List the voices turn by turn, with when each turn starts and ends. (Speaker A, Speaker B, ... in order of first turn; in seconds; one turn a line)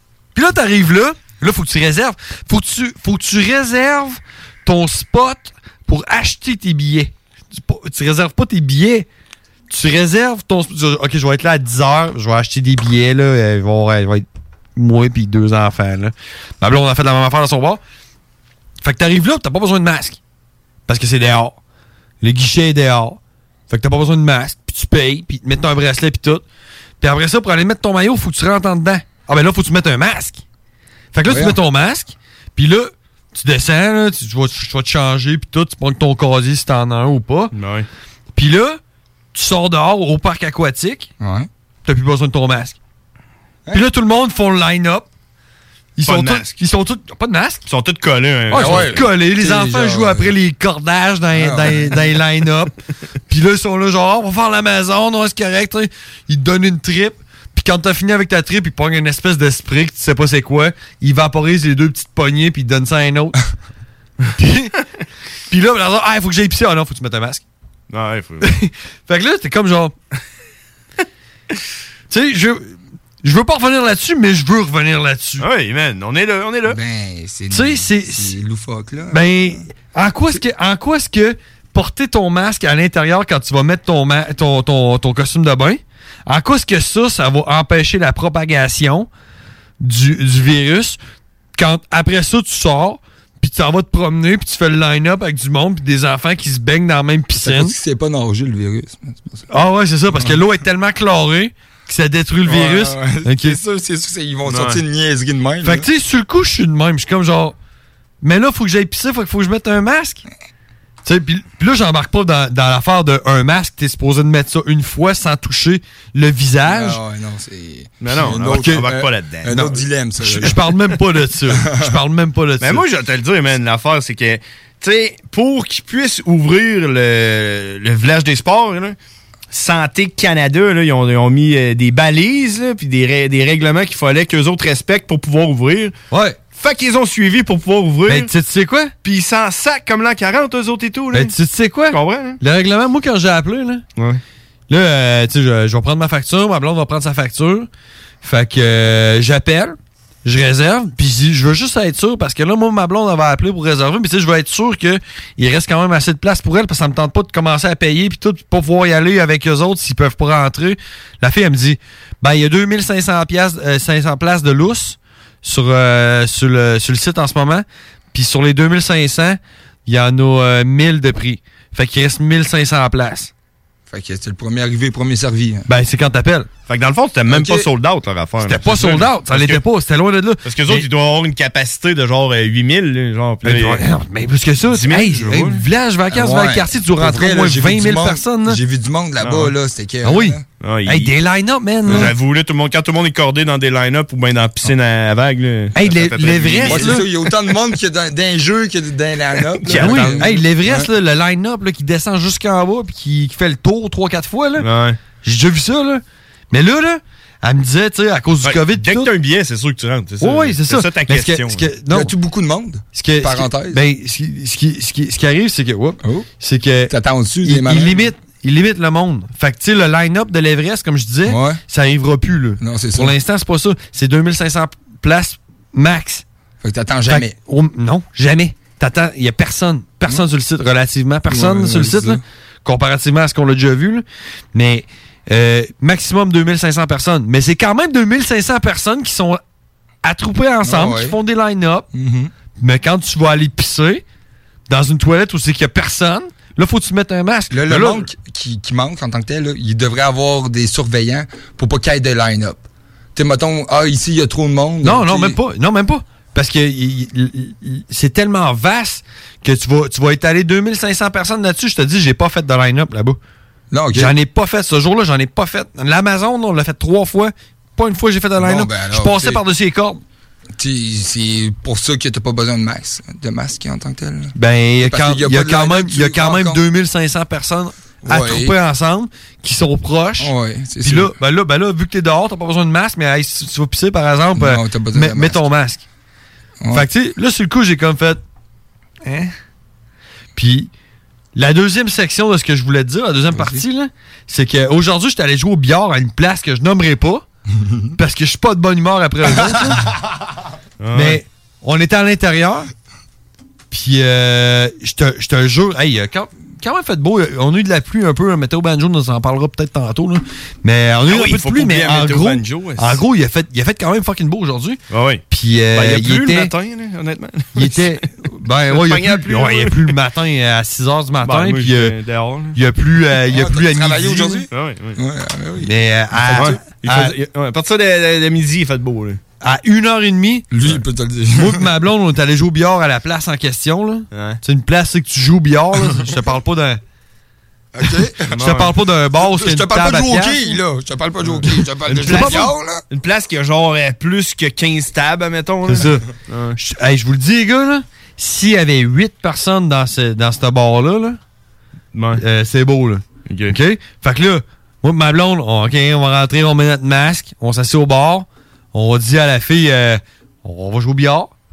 Speaker A: 0.3-9.1
Speaker A: 9.7-17.8
Speaker A: 18.8-20.2
Speaker A: 20.9-21.6
Speaker A: 22.2-26.4
Speaker A: 27.0-30.4
Speaker A: 31.1-37.5
Speaker B: 31.3-31.6
Speaker C: 37.5-37.9
Speaker A: 38.4-38.8
Speaker A: 39.3-41.1
Speaker B: 41.2-41.5
Speaker A: 41.8-42.8
Speaker A: 43.7-45.1
Speaker A: 46.0-47.6
Speaker C: 46.1-46.5
Speaker C: 47.7-49.0
Speaker B: 48.5-50.3
Speaker A: 48.5-52.7
Speaker B: 51.3-52.2
Speaker A: 53.3-63.4
Speaker A: 64.4-64.7
Speaker A: 65.5-67.4
Speaker C: 67.9-68.5
Speaker A: 68.5-69.9
Speaker A: 72.1-75.5
Speaker C: 75.4-76.8
Speaker B: 76.7-79.5
Speaker A: 77.5-78.4
Speaker A: 79.1-89.1
Speaker A: 89.8-91.0
Speaker A: 91.5-97.7
Speaker B: 97.4-99.5
Speaker A: 99.5-103.6
Speaker B: 100.1-100.4
Speaker B: 102.5-105.9
Speaker C: 104.5-104.8
Speaker A: 105.6-107.5
Speaker A: 108.2-110.2
Speaker A: 111.0-117.0
Speaker B: 116.7-120.8
Speaker C: 118.0-119.6
Speaker A: 119.5-122.8
Speaker B: 121.5-121.9
Speaker C: 122.6-128.9
Speaker C: 129.5-135.9
Speaker A: 136.1-136.4
Speaker C: 136.5-138.3
Speaker A: 138.1-138.9
Speaker C: 139.0-141.3
Speaker A: 141.1-143.8
Speaker C: 141.9-142.4
Speaker A: 144.7-147.7
Speaker A: 148.2-173.3
Speaker B: 173.9-175.7
Speaker A: 175.7-176.5
Speaker C: 176.7-179.6
Speaker B: 177.3-177.7
Speaker A: 178.4-180.9
Speaker C: 180.4-183.9
Speaker A: 183.4-188.6
Speaker C: 184.7-185.6
Speaker B: 186.1-190.4
Speaker C: 189.2-189.5
Speaker A: 190.0-192.1
Speaker C: 190.6-191.1
Speaker C: 191.9-197.1
Speaker A: 195.7-197.0
Speaker B: 196.6-200.9
Speaker C: 199.6-200.2
Speaker A: 199.7-204.7
Speaker C: 204.6-205.0
Speaker A: 205.2-209.1
Speaker C: 208.4-211.6
Speaker A: 210.2-212.1
Speaker B: 211.8-213.8
Speaker A: 212.9-216.9
Speaker B: 216.9-218.1
Speaker A: 217.4-226.2
Speaker B: 221.2-221.6
Speaker B: 222.6-223.1
Speaker B: 226.6-227.3
Speaker A: 227.1-239.4
Speaker B: 231.3-232.2
Speaker A: 240.0-241.9
Speaker B: 240.6-241.2
Speaker B: 241.9-242.3
Speaker A: 242.6-244.0
Speaker A: 244.7-248.1
Speaker B: 247.5-252.6
Speaker B: 253.1-255.4
Speaker A: 254.8-263.2
Speaker B: 263.7-264.2
Speaker A: 263.9-270.0
Speaker B: 268.4-269.4
Speaker B: 270.6-276.6
Speaker A: 274.3-280.3
Speaker B: 278.0-278.6
Speaker B: 280.2-281.1
Speaker A: 280.8-285.9
Speaker B: 284.3-285.4
Speaker B: 286.6-286.9
Speaker A: 286.7-288.2
Speaker A: 289.0-289.3
Speaker A: 290.4-290.7
Speaker A: 291.3-297.3
Speaker B: 293.3-293.6
Speaker A: 297.9-299.8
Speaker C: 300.8-301.2
Speaker A: 300.9-302.7
Speaker A: 303.7-316.5
Speaker C: 311.1-313.0
Speaker C: 314.9-315.2
Speaker C: 315.7-318.0
Speaker A: 317.6-321.9
Speaker C: 318.7-319.7
Speaker C: 321.2-322.6
Speaker A: 322.5-324.4
Speaker B: 323.3-326.6
Speaker C: 324.5-324.9
Speaker A: 325.6-327.1
Speaker C: 326.3-329.2
Speaker A: 329.4-330.5
Speaker B: 330.5-331.7
Speaker A: 331.4-336.8
Speaker C: 334.1-334.4
Speaker B: 337.7-338.2
Speaker C: 338.3-338.7
Speaker A: 338.4-340.6
Speaker B: 339.1-342.8
Speaker A: 341.9-342.5
Speaker C: 342.0-346.6
Speaker A: 345.6-346.1
Speaker A: 346.6-351.2
Speaker C: 351.9-352.2
Speaker A: 352.2-361.3
Speaker C: 353.3-353.6